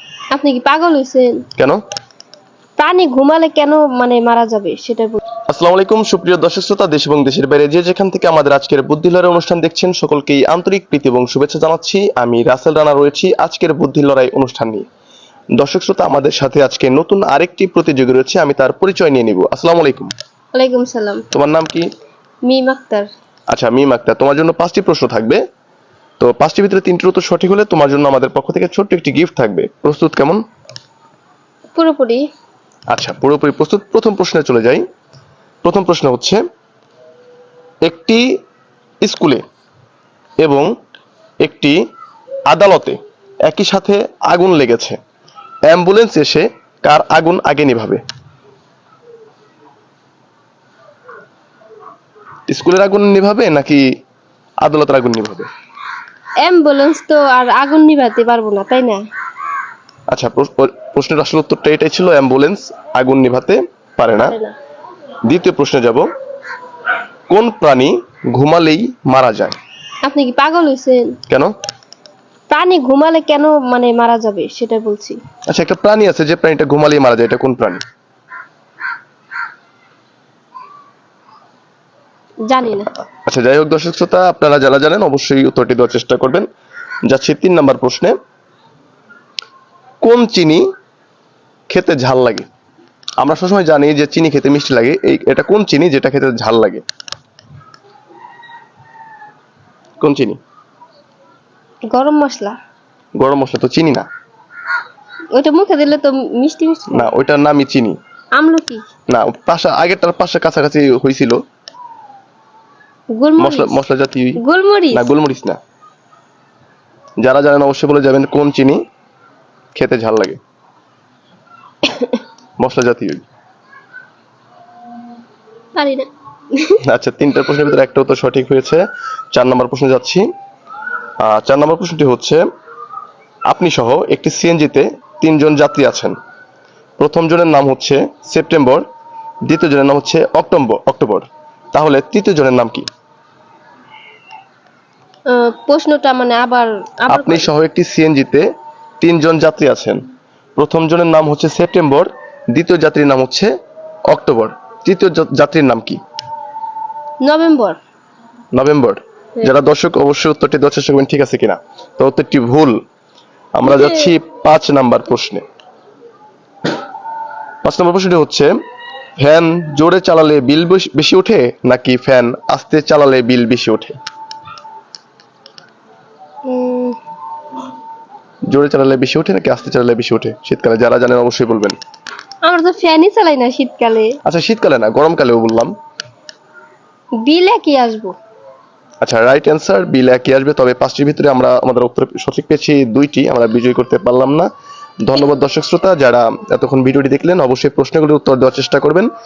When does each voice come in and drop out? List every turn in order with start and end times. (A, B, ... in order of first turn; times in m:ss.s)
0:00.3-0:01.4 A
0:02.8-0:05.2 A
0:05.5-0:14.8 B
0:15.6-0:20.1 B
0:20.5-0:21.2 A
0:21.3-0:21.9 B
0:22.4-0:23.1 A
0:23.5-0:25.4 B
0:26.2-0:30.4 B
0:31.7-0:32.2 A
0:32.9-0:34.8 B
0:35.6-0:36.4 B
0:37.8-0:38.2 B
0:39.0-0:39.4 B
0:40.4-0:40.7 B
0:41.4-0:41.8 B
0:42.5-0:45.0 B
0:45.7-0:48.0 B
0:52.5-0:53.8 B
0:54.6-0:55.5 B
0:56.4-0:59.0 A
1:00.1-1:04.4 B
1:04.2-1:04.6 A
1:05.2-1:06.1 B
1:07.3-1:09.6 B
1:10.0-1:11.2 A
1:11.3-1:11.5 B
1:12.5-1:15.2 A
1:15.5-1:17.8 B
1:22.4-1:22.9 A
1:23.2-1:26.5 B
1:27.0-1:28.2 B
1:30.0-1:30.6 B
1:31.7-1:32.4 B
1:33.2-1:36.8 B
1:40.0-1:40.4 B
1:41.9-1:42.6 A
1:43.2-1:44.1 B
1:45.3-1:47.1 A
1:46.9-1:48.0 B
1:48.3-1:48.8 A
1:49.1-1:51.4 B
1:53.2-1:53.8 A
1:53.4-1:54.4 B
1:54.4-1:55.1 A
1:54.9-1:55.6 B
1:57.2-1:58.8 B
1:59.7-2:00.4 B
2:02.6-2:03.2 B
2:05.8-2:06.8 A
2:06.8-2:10.3 B
2:11.2-2:12.4 B
2:13.5-2:16.1 B
2:17.0-2:18.8 B
2:19.5-2:22.9 B
2:25.3-2:27.5 A
2:27.1-2:28.4 B
2:29.0-2:30.0 B
2:30.6-2:33.5 B
2:34.1-2:36.0 B
2:37.2-2:37.8 A
2:38.5-2:42.8 B
2:43.5-2:45.4 B
2:43.6-2:44.1 A
2:47.6-2:48.5 B
2:49.2-2:54.0 B
2:56.4-2:57.0 A
2:58.5-3:01.8 B
3:02.4-3:04.2 A
3:04.2-3:05.7 B
3:07.2-3:08.1 A
3:09.0-3:14.5 B
3:15.0-3:19.1 B